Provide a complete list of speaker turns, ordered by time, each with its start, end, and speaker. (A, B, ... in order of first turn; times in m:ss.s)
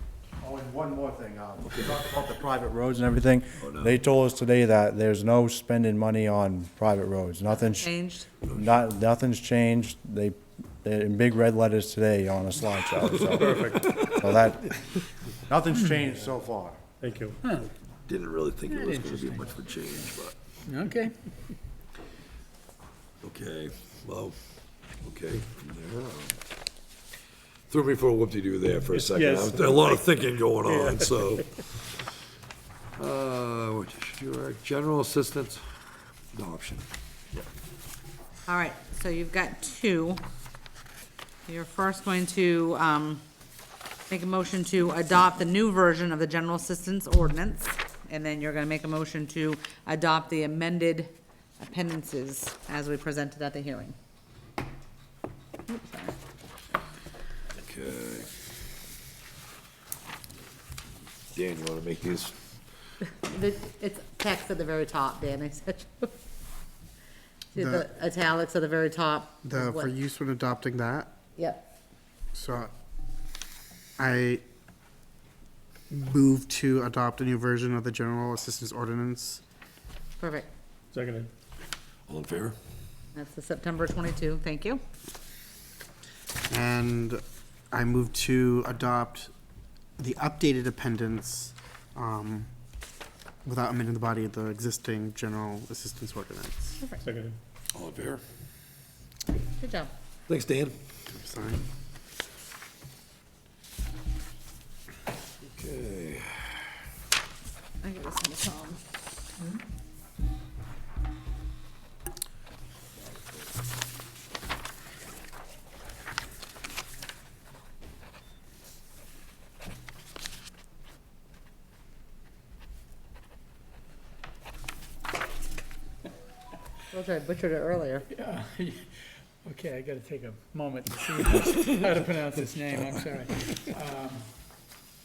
0:00.4-0:07.9 A
0:03.6-0:04.0 B
0:07.7-0:08.3 C
0:08.5-0:14.7 A
0:13.1-0:14.2 B
0:13.4-0:13.8 D
0:15.5-0:16.8 A
0:17.0-0:17.4 D
0:18.0-0:20.4 B
0:18.7-0:19.6 E
0:20.6-0:21.4 E
0:23.2-0:24.4 B
0:25.0-0:26.4 B
0:27.7-0:32.1 B
0:28.9-0:30.0 D
0:30.6-0:31.4 D
0:33.0-0:35.6 B
0:36.3-0:36.8 B
0:38.4-0:40.2 C
0:41.5-0:43.2 C
0:44.1-0:53.9 C
0:55.7-0:56.1 C
0:57.6-0:58.3 B
1:01.3-1:02.3 B
1:03.2-1:06.2 C
1:07.5-1:09.9 C
1:07.6-1:07.8 F
1:09.4-1:11.1 F
1:11.4-1:11.6 C
1:12.3-1:12.7 F
1:14.0-1:14.4 F
1:15.9-1:19.4 F
1:20.2-1:20.5 C
1:20.9-1:21.3 D
1:22.1-1:22.6 B
1:23.1-1:24.8 C
1:26.5-1:29.3 F
1:30.0-1:32.5 F
1:33.4-1:36.8 F
1:37.0-1:37.3 D
1:37.7-1:38.2 B
1:39.4-1:39.9 C
1:40.3-1:40.8 B
1:41.1-1:41.6 F
1:45.4-1:46.6 B
1:47.8-1:48.8 C
2:06.9-2:08.1 C
2:08.1-2:08.9 E
2:09.4-2:14.3 E